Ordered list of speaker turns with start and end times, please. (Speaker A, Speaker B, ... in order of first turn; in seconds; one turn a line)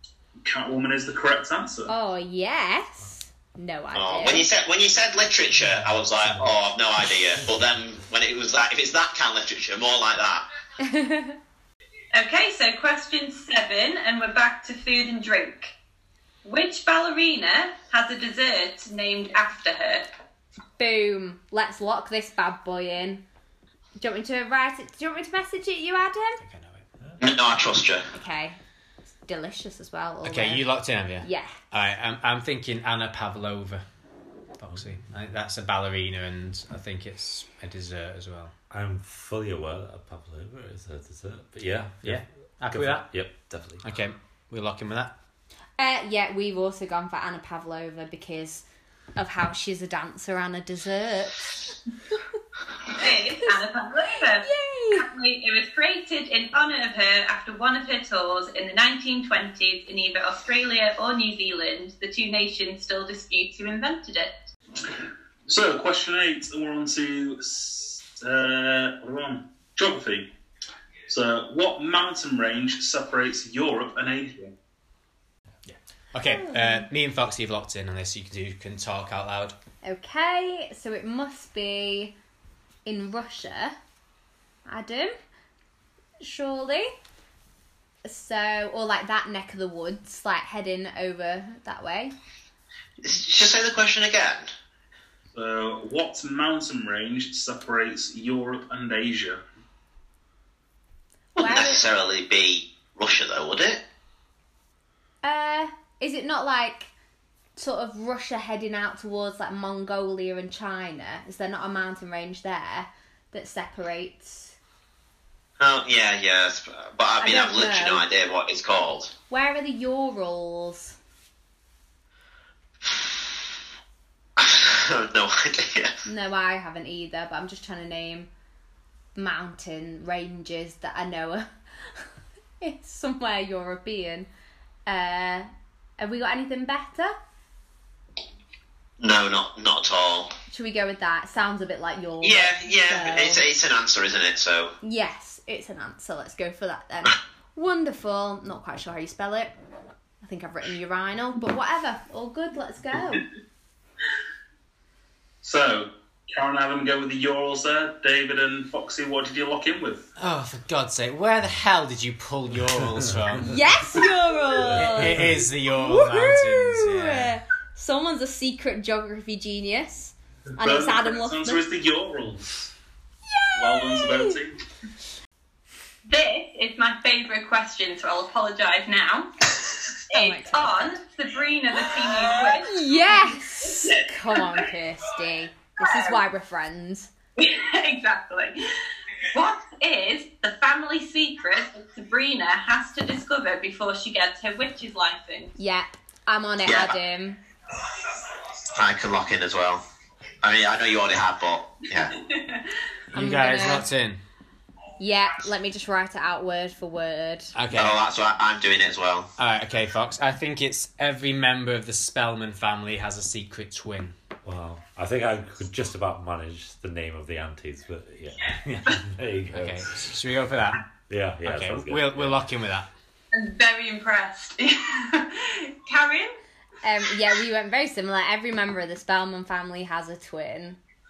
Speaker A: 0.4-1.9
Speaker B: 1.9-4.5
Speaker C: 4.0-10.4
Speaker B: 10.8-11.4
Speaker D: 12.1-15.7
Speaker D: 16.4-20.1
Speaker B: 20.8-23.2
Speaker B: 24.0-26.4
Speaker E: 26.4-26.8
Speaker C: 27.2-28.1
Speaker B: 28.1-28.6
Speaker B: 29.3-30.7
Speaker E: 30.2-33.8
Speaker B: 31.2-31.6
Speaker E: 34.6-38.5
Speaker F: 34.7-35.1
Speaker F: 38.7-43.9
Speaker E: 42.0-43.1
Speaker E: 43.8-45.1
Speaker B: 45.8-48.6
Speaker B: 49.2-51.7
Speaker D: 52.9-64.3
Speaker B: 53.0-53.6
Speaker B: 54.4-55.1
Speaker A: 65.5-70.3
Speaker A: 71.1-74.5
Speaker E: 75.7-79.6
Speaker B: 76.2-76.9
Speaker B: 79.8-82.2
Speaker B: 82.8-83.8
Speaker B: 84.7-85.2
Speaker B: 86.2-86.9
Speaker B: 88.0-92.1
Speaker C: 93.0-94.5
Speaker A: 95.3-99.4
Speaker B: 101.3-101.8
Speaker C: 101.4-103.8
Speaker B: 105.2-106.9
Speaker B: 107.6-114.5
Speaker C: 115.6-119.1
Speaker B: 117.2-118.0
Speaker B: 119.3-121.0
Speaker C: 124.4-126.0
Speaker B: 126.1-128.3
Speaker B: 129.2-132.1
Speaker B: 132.6-134.3
Speaker B: 134.9-137.2
Speaker C: 139.0-140.3
Speaker B: 140.5-143.4
Speaker C: 142.2-144.7
Speaker B: 144.8-149.5
Speaker B: 150.2-153.2
Speaker A: 155.4-160.1
Speaker E: 160.2-163.6
Speaker F: 162.7-163.5
Speaker B: 163.4-165.2
Speaker F: 164.7-165.5
Speaker E: 164.7-167.3
Speaker B: 165.7-171.6
Speaker A: 170.6-172.7
Speaker B: 173.3-174.4
Speaker A: 173.5-174.6
Speaker D: 176.1-179.5
Speaker D: 180.1-184.6
Speaker B: 180.1-180.9
Speaker B: 182.6-187.1
Speaker D: 185.8-186.2
Speaker D: 187.4-188.6
Speaker D: 189.2-195.5
Speaker B: 195.6-197.4
Speaker C: 196.7-196.9
Speaker C: 198.7-199.8
Speaker C: 200.4-202.2
Speaker D: 202.0-202.7
Speaker E: 203.1-204.2
Speaker B: 203.1-203.9
Speaker B: 205.0-207.5
Speaker E: 207.6-208.0
Speaker C: 207.7-209.3
Speaker E: 209.4-214.1
Speaker F: 214.4-220.1
Speaker E: 219.5-220.8
Speaker F: 221.1-222.4
Speaker E: 221.4-222.9
Speaker D: 223.3-226.4
Speaker B: 226.8-230.8